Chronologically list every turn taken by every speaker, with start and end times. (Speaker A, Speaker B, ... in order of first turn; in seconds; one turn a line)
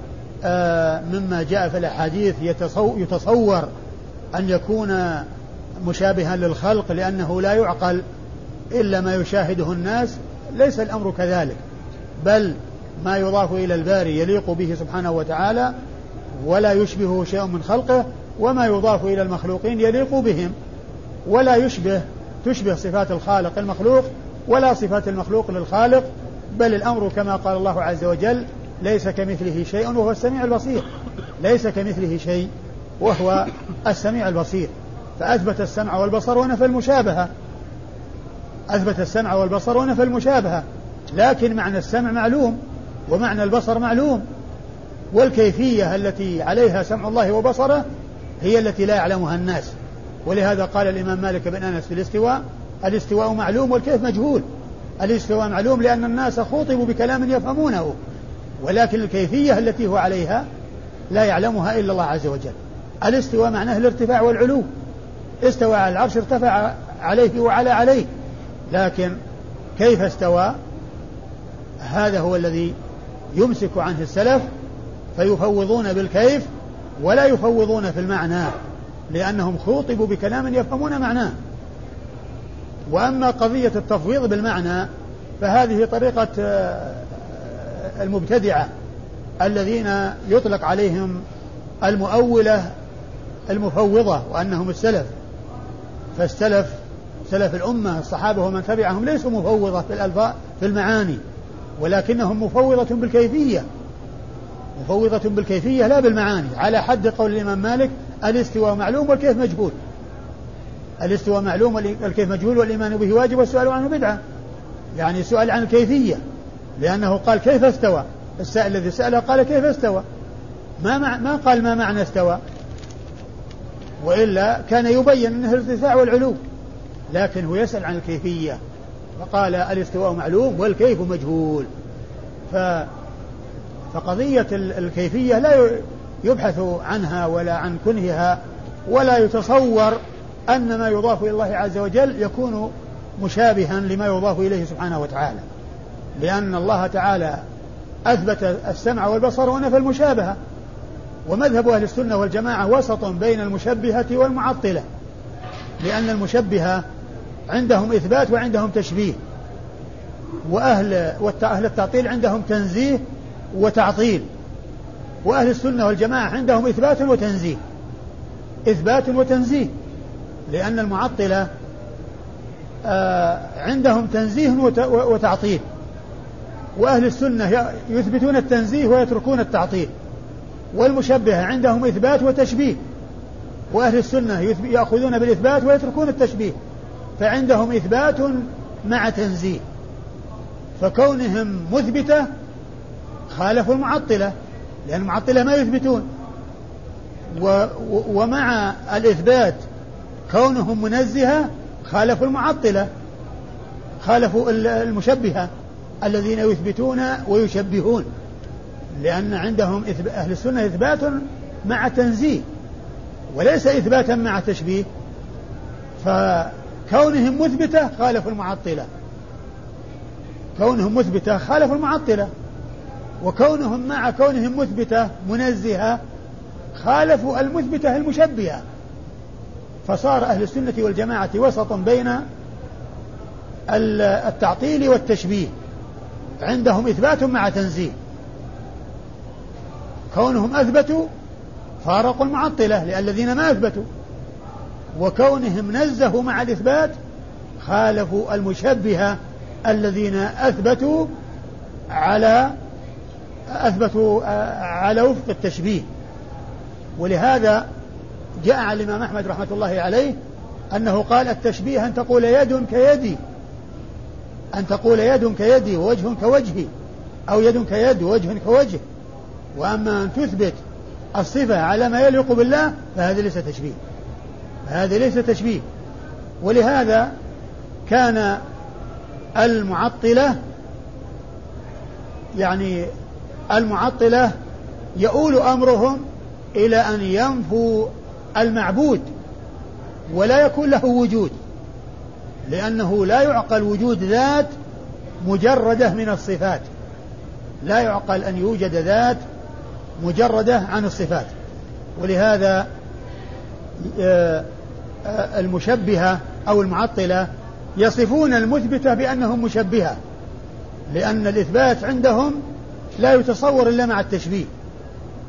Speaker A: 0.4-3.7
Speaker A: 4.3-5.2
Speaker A: 5.8-8.0
Speaker A: 8.7-11.6
Speaker A: 12.2-15.7
Speaker A: 16.4-20.5
Speaker A: 21.2-30.8
Speaker A: 31.4-32.5
Speaker A: 33.0-37.3
Speaker A: 38.7-44.2
Speaker A: 45.1-47.8
Speaker A: 48.4-49.7
Speaker A: 50.2-54.4
Speaker A: 55.0-58.0
Speaker A: 58.6-60.4
Speaker A: 61.1-64.7
Speaker A: 65.4-68.1
Speaker A: 68.7-69.2
Speaker A: 69.8-70.5
Speaker A: 71.8-72.7
Speaker A: 73.3-74.5
Speaker A: 75.2-76.5
Speaker A: 77.0-78.5
Speaker A: 79.1-81.3
Speaker A: 82.9-84.9
Speaker A: 85.4-88.7
Speaker A: 89.4-91.2
Speaker A: 91.8-92.7
Speaker A: 93.5-95.1
Speaker A: 96.1-101.2
Speaker A: 101.8-103.6
Speaker A: 104.8-109.8
Speaker A: 111.0-114.2
Speaker A: 115.0-116.2
Speaker A: 116.8-120.0
Speaker A: 120.8-122.4
Speaker A: 124.0-126.4
Speaker A: 127.1-128.6
Speaker A: 129.2-131.7
Speaker A: 132.5-132.9
Speaker A: 133.9-140.0
Speaker A: 140.5-145.4
Speaker A: 146.2-147.4
Speaker A: 148.1-150.3
Speaker A: 151.2-154.8
Speaker A: 155.8-156.8
Speaker A: 157.5-159.2
Speaker A: 160.4-164.3
Speaker A: 165.2-167.6
Speaker A: 168.7-169.7
Speaker A: 170.5-171.5
Speaker A: 172.8-175.6
Speaker A: 176.8-179.9
Speaker A: 180.7-182.8
Speaker A: 183.7-186.6
Speaker A: 187.2-189.6
Speaker A: 190.8-192.3
Speaker A: 193.3-194.3
Speaker A: 194.8-196.1
Speaker A: 197.3-199.6
Speaker A: 200.3-202.9
Speaker A: 204.0-205.5
Speaker A: 206.0-208.1
Speaker A: 209.0-212.4
Speaker A: 213.3-214.8
Speaker A: 216.0-218.9
Speaker A: 220.6-222.3
Speaker A: 223.2-226.0
Speaker A: 226.7-228.6
Speaker A: 229.8-232.2
Speaker A: 233.7-235.5
Speaker A: 236.4-237.9
Speaker A: 240.1-241.1
Speaker A: 241.8-243.8
Speaker A: 244.9-246.9
Speaker A: 247.6-249.2
Speaker A: 249.7-251.1
Speaker A: 251.9-252.5
Speaker A: 253.5-255.8
Speaker A: 257.0-257.6
Speaker A: 258.4-260.1
Speaker A: 260.7-263.2
Speaker A: 264.5-266.7
Speaker A: 267.3-268.8
Speaker A: 269.5-270.6
Speaker A: 271.1-273.8
Speaker A: 274.6-275.6
Speaker A: 276.4-277.1
Speaker A: 277.9-278.4
Speaker A: 279.4-280.3
Speaker A: 282.4-282.9
Speaker A: 283.5-284.3
Speaker A: 285.0-286.0
Speaker A: 286.6-289.1
Speaker A: 290.1-291.3
Speaker A: 292.4-294.5
Speaker A: 295.2-296.7
Speaker A: 297.6-299.2
Speaker A: 300.0-301.3
Speaker A: 302.0-302.6
Speaker A: 303.8-304.5
Speaker A: 305.0-310.0
Speaker A: 310.9-312.4
Speaker A: 313.0-314.5